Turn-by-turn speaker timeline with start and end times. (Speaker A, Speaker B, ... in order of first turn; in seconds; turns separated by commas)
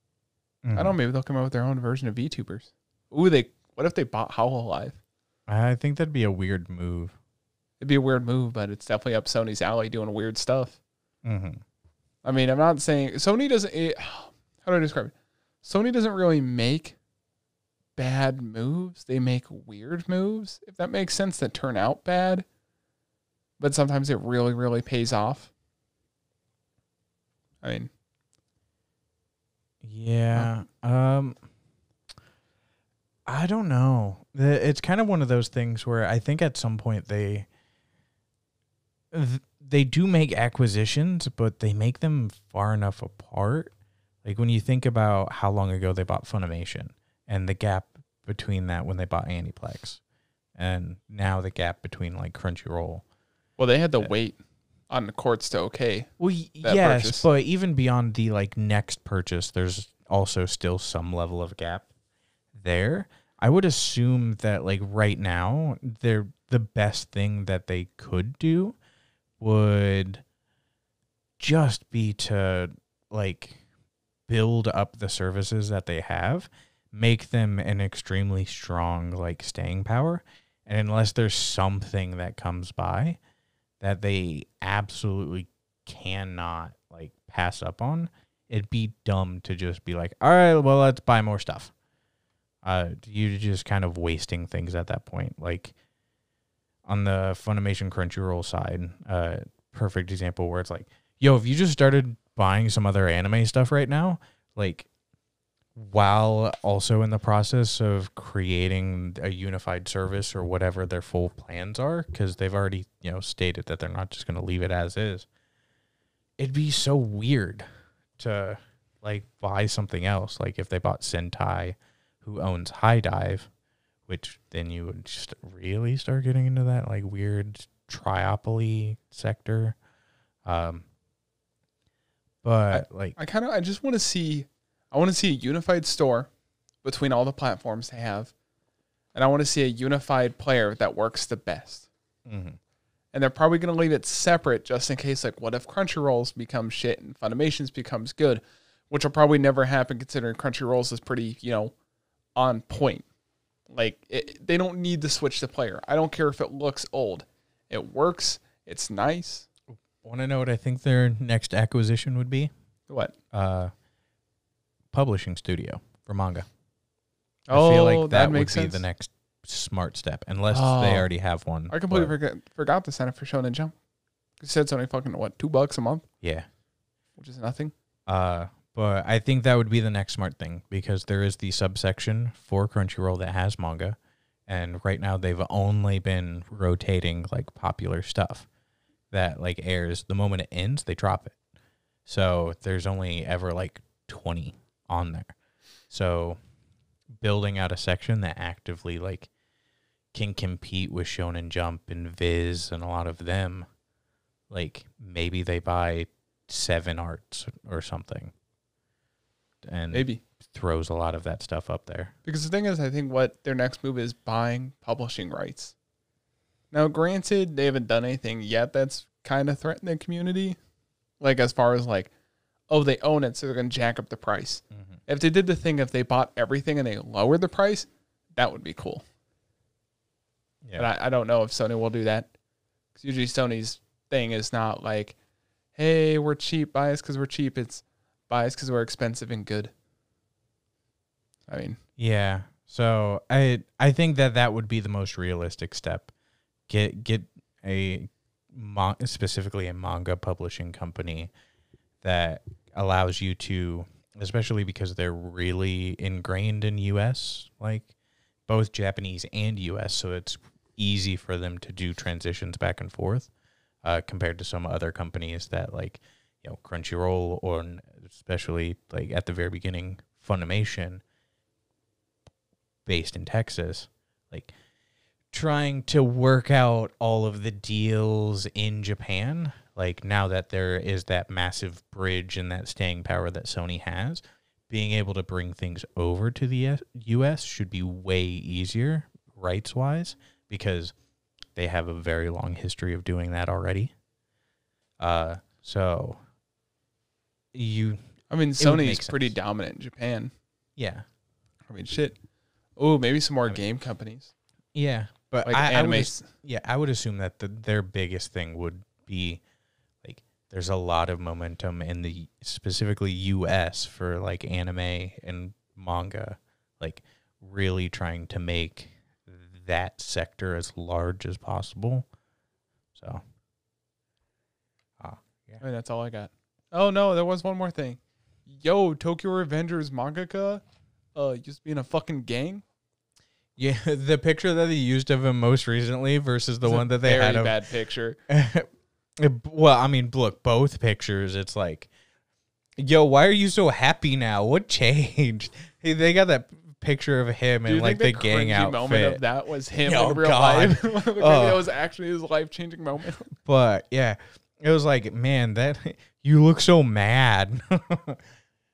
Speaker A: 0.6-0.9, Speaker B: 0.7-5.0, Speaker A: 5.5-7.1, Speaker B: 7.8-10.8, Speaker A: 11.2-11.6, Speaker B: 12.2-17.0, Speaker B: 18.0-22.4, Speaker B: 23.6-25.5, Speaker B: 27.6-27.9, Speaker A: 29.8-31.4, Speaker A: 33.2-37.5, Speaker A: 39.1-43.7, Speaker A: 44.2-50.0, Speaker A: 50.5-53.0, Speaker B: 53.6-54.4, Speaker B: 54.9-57.2, Speaker A: 56.2-61.9, Speaker A: 62.5-68.8, Speaker A: 69.4-70.2, Speaker A: 71.4-73.6, Speaker A: 74.3-83.2, Speaker A: 83.8-91.7, Speaker A: 92.6-95.7, Speaker A: 96.8-104.9, Speaker A: 105.7-115.3, Speaker A: 116.4-117.7, Speaker A: 118.2-123.5, Speaker A: 124.1-129.8, Speaker A: 130.4-130.8, Speaker A: 132.4-133.2, Speaker B: 132.7-136.3, Speaker B: 136.8-138.3, Speaker B: 139.1-141.9, Speaker A: 142.2-142.6, Speaker B: 143.1-151.7, Speaker B: 152.3-153.1, Speaker B: 153.7-159.5, Speaker A: 160.0-162.5, Speaker B: 162.9-163.1, Speaker A: 163.3-163.7, Speaker A: 164.9-166.5, Speaker B: 167.5-168.8, Speaker A: 167.5-172.1, Speaker B: 170.5-171.1, Speaker B: 171.7-173.7, Speaker B: 174.4-176.0, Speaker A: 176.2-176.5, Speaker B: 177.2-177.7, Speaker A: 178.1-188.5, Speaker A: 189.1-191.3, Speaker A: 192.1-195.3, Speaker A: 195.9-196.4, Speaker A: 197.1-199.3, Speaker A: 200.1-203.7, Speaker A: 204.5-208.3, Speaker A: 209.6-212.1, Speaker B: 209.9-210.2, Speaker B: 212.2-215.7, Speaker B: 216.7-220.6, Speaker B: 221.2-222.1, Speaker B: 222.7-229.0, Speaker A: 224.7-225.0, Speaker B: 230.8-232.3, Speaker B: 232.9-235.2, Speaker B: 235.7-239.7, Speaker B: 241.5-241.8, Speaker A: 242.0-246.1, Speaker A: 246.7-251.3, Speaker A: 252.0-257.9, Speaker A: 258.5-263.3, Speaker A: 263.8-271.0, Speaker A: 272.9-274.5, Speaker A: 275.3-290.9, Speaker A: 291.6-293.9, Speaker A: 295.0-296.2, Speaker A: 297.5-298.0, Speaker B: 298.3-300.3, Speaker A: 298.6-299.3, Speaker A: 300.8-301.1, Speaker B: 301.7-302.1, Speaker B: 302.8-304.3, Speaker A: 304.7-309.4, Speaker B: 305.4-306.3, Speaker A: 310.0-322.1, Speaker A: 322.9-323.2, Speaker A: 325.0-325.6, Speaker B: 325.6-330.6, Speaker B: 331.1-332.6, Speaker A: 333.6-337.6, Speaker B: 336.6-338.2, Speaker A: 338.3-338.7, Speaker A: 339.2-341.9, Speaker A: 342.8-349.2, Speaker B: 347.6-353.3, Speaker A: 349.8-351.7, Speaker A: 353.3-358.3